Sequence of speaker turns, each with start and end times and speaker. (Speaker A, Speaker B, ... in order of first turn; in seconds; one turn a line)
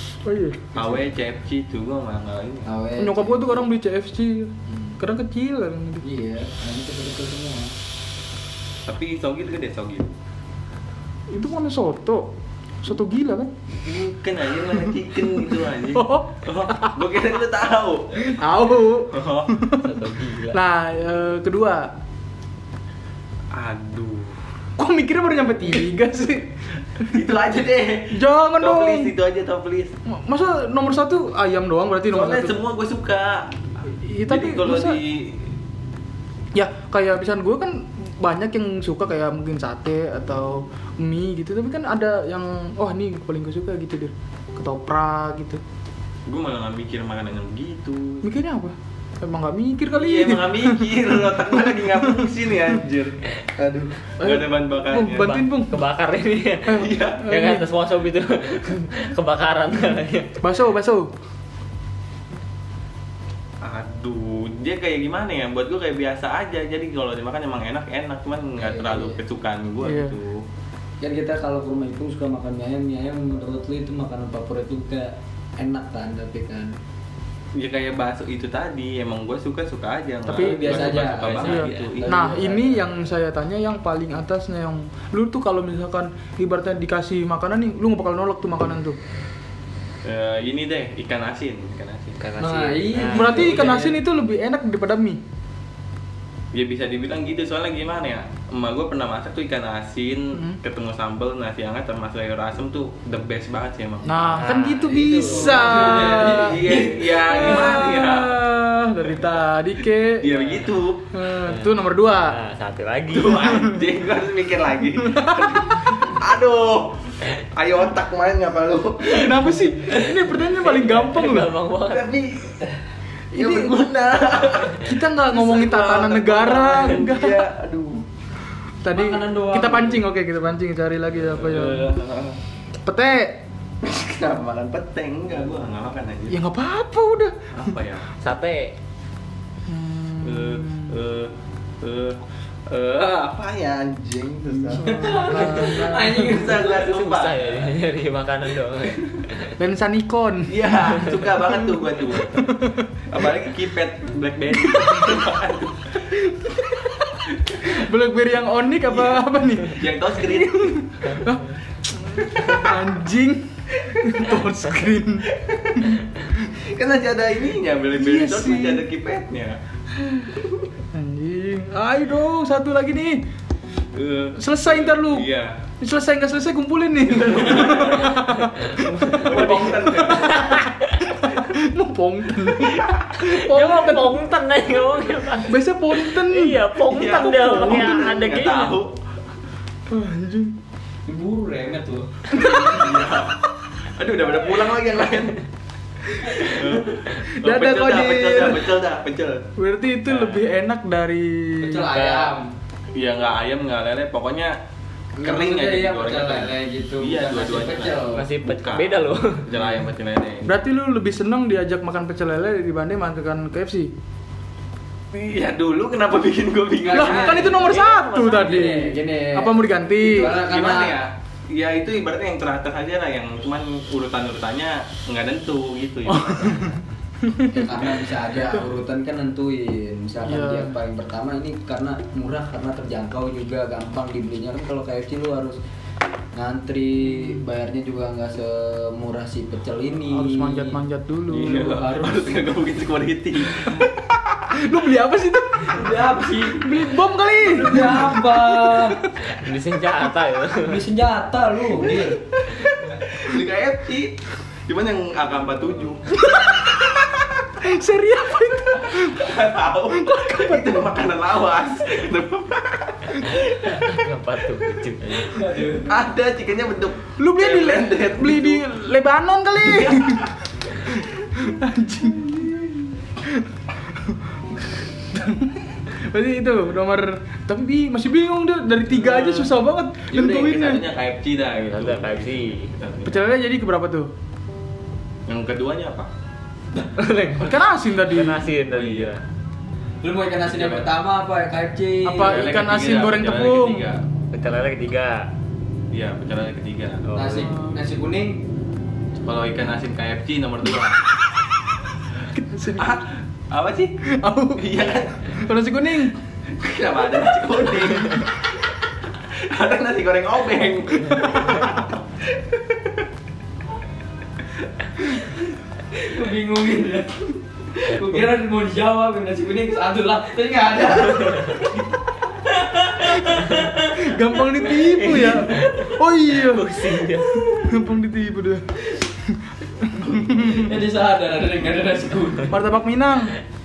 Speaker A: 0.2-0.7
Speaker B: 0.7-2.7
Speaker C: 2.6-3.6
Speaker A: 3.0-6.0
Speaker C: 6.0-7.7
Speaker B: 8.9-10.1
Speaker A: 11.3-12.3
Speaker A: 12.8-13.5
Speaker B: 13.8-18.4
Speaker A: 15.7-17.1
Speaker A: 18.2-20.0
Speaker B: 19.1-19.5
Speaker D: 19.7-20.6
Speaker A: 20.5-21.9
Speaker B: 23.5-24.4
Speaker A: 24.8-27.2
Speaker B: 27.1-29.9
Speaker A: 28.1-29.1
Speaker A: 30.1-32.5
Speaker B: 32.1-33.5
Speaker A: 34.0-35.0
Speaker B: 34.3-35.5
Speaker A: 36.5-45.6
Speaker B: 46.3-48.3
Speaker A: 48.2-52.5
Speaker B: 49.9-55.4
Speaker A: 54.2-55.8
Speaker D: 55.2-60.3
Speaker A: 56.7-57.7
Speaker B: 56.8-57.2
Speaker A: 60.4-61.1
Speaker B: 63.6-70.4
Speaker C: 68.6-69.2
Speaker A: 69.8-70.1
Speaker C: 71.0-76.7
Speaker B: 77.5-82.1
Speaker C: 80.2-82.9
Speaker A: 80.3-89.0
Speaker B: 90.0-92.2
Speaker D: 92.2-93.7
Speaker C: 92.4-94.0
Speaker A: 93.0-95.2
Speaker B: 96.5-104.4
Speaker A: 104.0-106.6
Speaker D: 104.3-106.1
Speaker C: 104.9-107.7
Speaker B: 105.9-108.4
Speaker A: 107.2-110.5
Speaker B: 110.1-111.1
Speaker A: 111.1-112.4
Speaker D: 111.4-113.5
Speaker B: 113.1-119.6
Speaker A: 113.4-113.8
Speaker A: 115.0-115.7
Speaker A: 119.0-121.5
Speaker D: 120.3-122.1
Speaker B: 121.8-122.7
Speaker B: 123.3-128.1
Speaker A: 123.3-123.7
Speaker A: 124.8-127.5
Speaker A: 128.8-131.9
Speaker C: 128.9-130.1
Speaker B: 131.2-132.4
Speaker A: 132.8-133.4
Speaker B: 133.8-136.4
Speaker A: 136.3-137.4
Speaker B: 137.5-138.1
Speaker D: 138.2-138.7
Speaker A: 139.7-140.9
Speaker B: 140.2-147.7
Speaker A: 144.7-146.4
Speaker C: 144.8-146.7
Speaker D: 146.6-149.5
Speaker A: 149.6-151.7
Speaker B: 150.5-152.5
Speaker A: 152.3-152.8
Speaker B: 153.1-156.1
Speaker A: 154.6-155.2
Speaker A: 156.4-166.0
Speaker B: 157.5-157.8
Speaker B: 158.8-160.8
Speaker B: 165.3-166.0
Speaker B: 166.6-169.6
Speaker A: 167.9-168.8
Speaker A: 170.0-170.3
Speaker A: 170.9-173.2
Speaker B: 173.9-175.6
Speaker A: 174.4-175.3
Speaker A: 175.8-184.2
Speaker B: 177.1-178.2
Speaker D: 178.3-181.1
Speaker B: 179.1-180.7
Speaker B: 182.6-183.1
Speaker D: 183.2-188.7
Speaker A: 185.4-187.9
Speaker B: 186.9-189.0
Speaker A: 189.9-190.6
Speaker C: 191.1-192.3
Speaker B: 192.3-195.4
Speaker A: 192.3-193.0
Speaker B: 196.4-199.5
Speaker A: 196.4-198.7
Speaker A: 199.6-201.9
Speaker D: 200.1-200.4
Speaker C: 201.6-202.5
Speaker D: 202.0-202.3
Speaker B: 202.9-204.6
Speaker C: 205.2-208.2
Speaker B: 205.2-210.5
Speaker D: 208.1-209.6
Speaker A: 210.4-213.9
Speaker B: 215.1-217.6
Speaker C: 216.8-217.7
Speaker A: 216.9-220.4
Speaker D: 217.5-218.9
Speaker C: 218.3-221.0
Speaker B: 220.2-226.8
Speaker A: 226.1-226.7
Speaker A: 227.2-227.7
Speaker C: 227.5-235.6
Speaker A: 230.2-230.8
Speaker C: 236.3-242.5
Speaker A: 240.1-241.8
Speaker B: 241.3-244.6
Speaker A: 244.5-249.3
Speaker C: 245.6-246.8
Speaker C: 247.4-249.0
Speaker D: 249.3-250.8
Speaker C: 250.6-252.2
Speaker B: 252.5-257.2
Speaker A: 256.3-256.6
Speaker A: 257.6-261.0
Speaker B: 258.8-263.9
Speaker D: 263.6-265.5
Speaker C: 265.2-266.0
Speaker B: 265.8-268.6
Speaker A: 267.2-273.4
Speaker B: 269.6-270.3
Speaker A: 275.0-280.9
Speaker B: 279.0-279.4
Speaker B: 280.1-283.2
Speaker D: 281.5-282.8
Speaker A: 283.0-284.1
Speaker B: 285.3-286.1
Speaker D: 287.0-289.2
Speaker A: 287.4-288.5
Speaker B: 288.6-289.1
Speaker C: 290.0-292.4
Speaker B: 290.5-290.9
Speaker A: 292.0-293.8
Speaker B: 292.2-294.0
Speaker D: 294.3-295.3
Speaker B: 295.9-297.0
Speaker D: 297.0-297.5
Speaker C: 297.1-298.4
Speaker A: 297.4-297.7
Speaker B: 299.2-301.0
Speaker A: 302.3-303.0
Speaker B: 302.8-304.0
Speaker A: 304.0-306.1
Speaker B: 304.6-305.4
Speaker B: 306.5-313.0
Speaker A: 311.2-311.7
Speaker C: 315.9-321.8
Speaker C: 322.3-323.7
Speaker A: 323.6-330.7
Speaker D: 324.7-327.6
Speaker C: 330.1-332.5
Speaker A: 332.5-333.3